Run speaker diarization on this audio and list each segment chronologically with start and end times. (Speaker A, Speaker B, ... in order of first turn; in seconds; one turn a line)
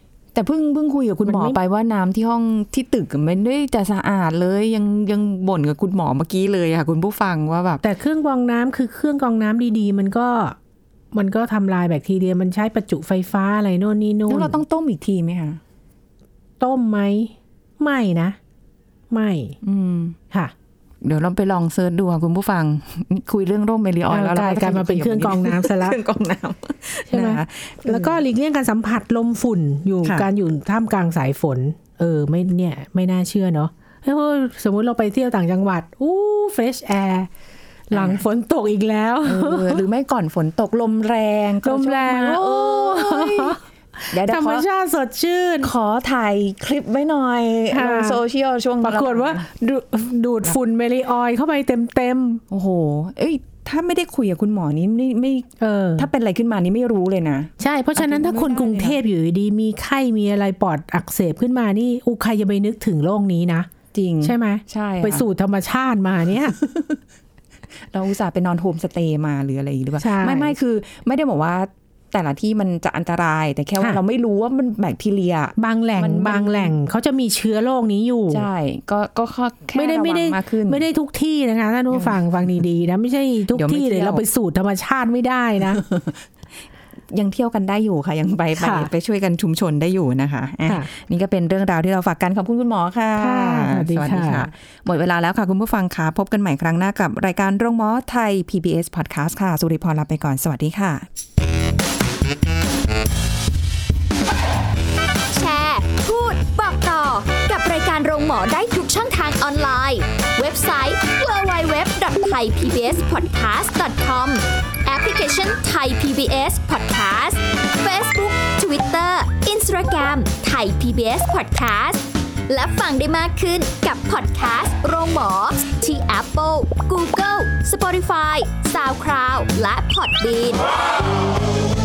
Speaker A: 0.3-7.8
Speaker B: 1.2-1.6
Speaker B: 7.8-10.6
Speaker B: 11.1-14.6
Speaker A: 14.3-15.6
Speaker B: 16.6-18.4
Speaker B: 19.1-19.6
Speaker A: 19.6-20.2
Speaker A: 21.0-28.2
Speaker B: 24.1-26.0
Speaker B: 27.1-37.3
Speaker B: 37.9-39.8
Speaker A: 37.9-38.2
Speaker A: 39.2-43.6
Speaker B: 41.6-45.7
Speaker A: 44.1-44.7
Speaker A: 45.6-49.5
Speaker B: 47.7-48.2
Speaker B: 48.8-52.4
Speaker A: 52.5-59.0
Speaker B: 55.6-56.1
Speaker B: 57.6-63.7
Speaker A: 63.9-65.3
Speaker B: 64.2-66.6
Speaker A: 66.6-67.0
Speaker A: 67.9-76.8
Speaker B: 70.0-70.5
Speaker B: 75.6-78.5
Speaker A: 78.3-80.8
Speaker B: 79.8-85.8
Speaker A: 81.9-82.2
Speaker A: 83.5-84.2
Speaker A: 85.7-86.2
Speaker A: 87.1-101.1
Speaker B: 88.6-88.9
Speaker B: 93.2-94.5
Speaker C: 105.3-130.6